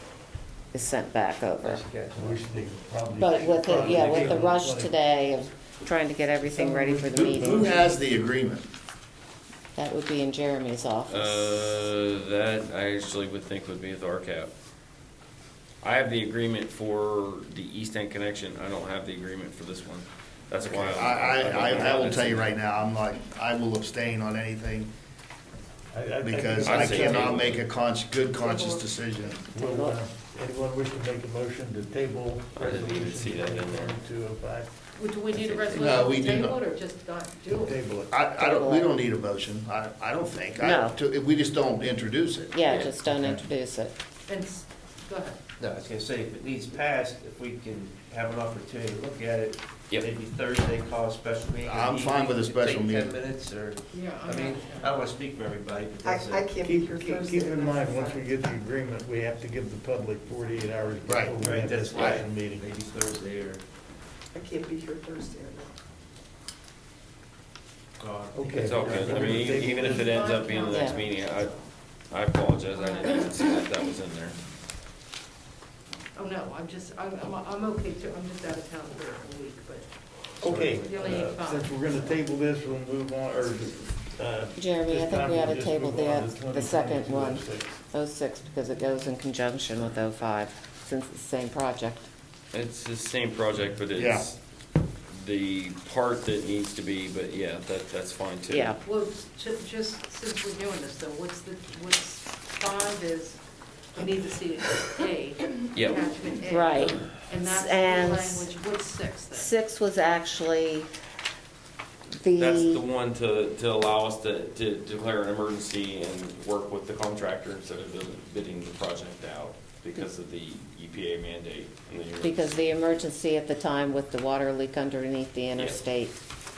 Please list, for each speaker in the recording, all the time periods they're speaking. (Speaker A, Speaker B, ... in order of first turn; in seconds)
Speaker A: 0.7-1.8, 3.2-7.8, 9.8-11.7, 29.6-30.0, 38.4-38.9, 40.6-41.0, 42.5-44.0, 70.7-71.0, 84.6-92.1, 98.5-98.8, 106.4-108.5, 109.3-110.9, 112.2-112.8, 122.2-126.2
Speaker B: 1.6-2.5, 3.3-4.3, 45.6-56.5, 61.4-63.6, 68.0-70.0, 80.5-81.2
Speaker C: 2.1-5.0, 6.5-7.0, 25.9-27.6, 29.5-34.7, 37.5-38.2, 42.8-43.5, 56.6-62.7, 68.3-70.2, 80.4-87.8
Speaker D: 7.0-8.7, 20.7-24.9, 26.2-29.4, 35.7-36.6, 38.1-42.5, 51.6-53.2, 61.1-61.4, 61.9-62.2, 94.0-94.3
Speaker E: 11.1-14.5, 15.8-22.6, 26.6-27.6, 32.6-34.0, 35.3-36.0, 42.7-42.9, 68.6-71.5, 72.1-74.4, 92.5-94.4, 95.1-98.8, 105.7-106.1, 112.4-122.6, 125.6-125.8
Speaker F: 28.4-28.9, 34.9-37.8, 44.3-45.4, 53.9-55.0, 69.9-71.7, 72.7-73.4, 76.2-79.9, 80.8-82.1, 98.8-103.4, 103.9-109.5
Speaker G: 56.0-58.3, 64.3-65.8